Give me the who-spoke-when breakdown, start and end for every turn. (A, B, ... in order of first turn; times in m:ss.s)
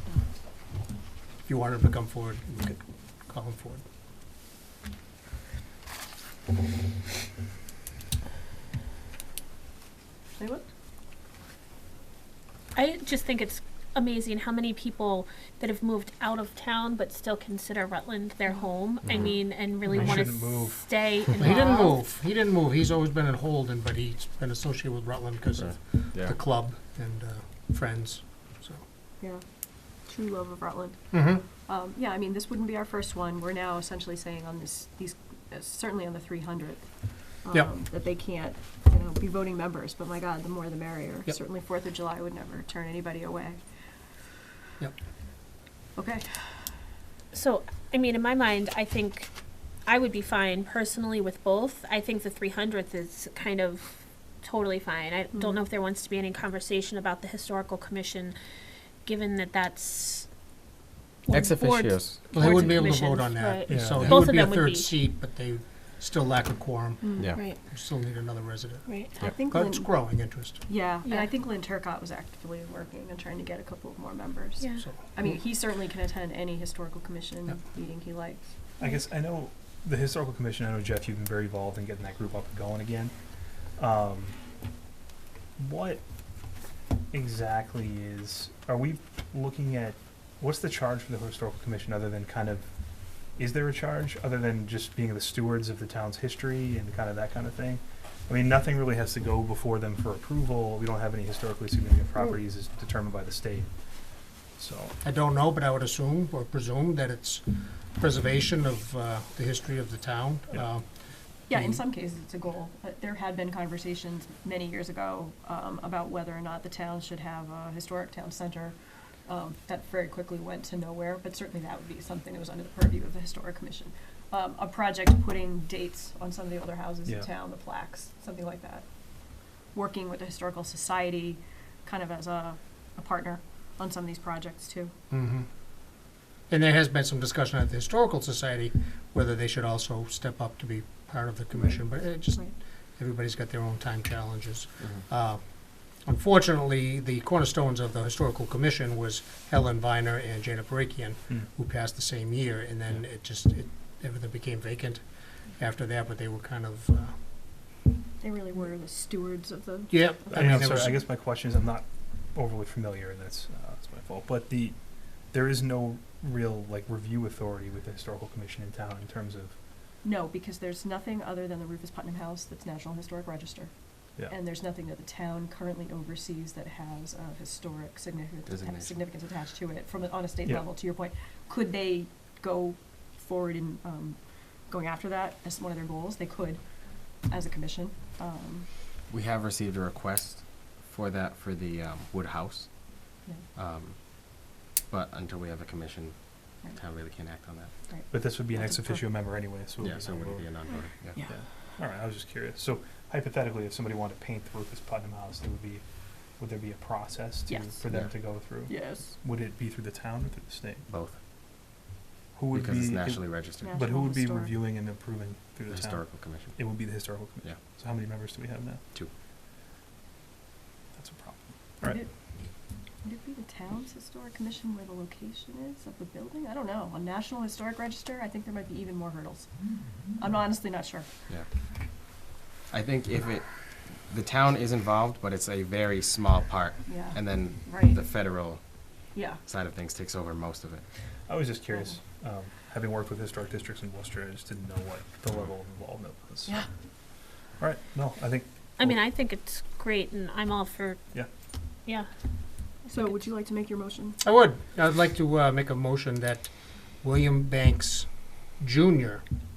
0:01.4-0:03.8 A
0:10.4-0:10.7 B
0:12.8-0:22.0 C
0:19.0-0:19.4 D
0:19.9-0:21.2 E
0:21.4-0:28.8 A
0:25.6-0:26.4 D
0:29.2-0:43.6 B
0:31.1-0:31.4 A
0:46.0-0:46.7 B
0:47.3-0:58.4 C
0:59.0-1:00.3 C
1:01.3-1:05.0 C
1:01.3-1:02.2 D
1:02.3-1:10.6 A
1:03.7-1:04.1 E
1:07.0-1:07.5 B
1:08.9-1:09.1 C
1:09.2-1:18.8 B
1:14.6-1:14.8 C
1:18.8-1:24.5 E
1:25.6-1:26.0 E
1:27.1-1:45.0 E
1:45.0-1:51.1 A
1:51.5-2:15.0 B
2:15.1-2:15.5 A
2:16.5-2:37.2 A
2:21.6-2:22.5 B
2:38.2-2:40.9 B
2:39.9-2:41.0 A
2:40.3-2:49.6 E
2:50.0-3:08.7 B
2:58.5-2:59.1 D
3:09.1-3:17.8 D
3:13.2-3:13.5 B
3:17.9-3:19.0 B
3:18.1-3:30.9 E
3:19.8-3:21.2 D
3:20.7-3:21.5 B
3:27.5-3:27.8 B
3:27.9-3:28.4 D
3:28.4-3:29.2 B
3:30.9-3:31.2 D
3:32.4-3:38.8 E
3:32.5-3:33.8 D
3:33.6-3:34.6 B
3:35.7-3:36.8 D
3:40.9-3:42.0 E
3:41.8-3:51.2 B
3:52.7-4:00.8 D
3:56.8-3:58.1 B
3:59.1-3:59.4 B
4:01.3-4:06.6 E
4:07.6-4:09.0 E
4:08.8-4:11.2 C
4:12.9-4:14.2 B
4:14.2-4:19.2 A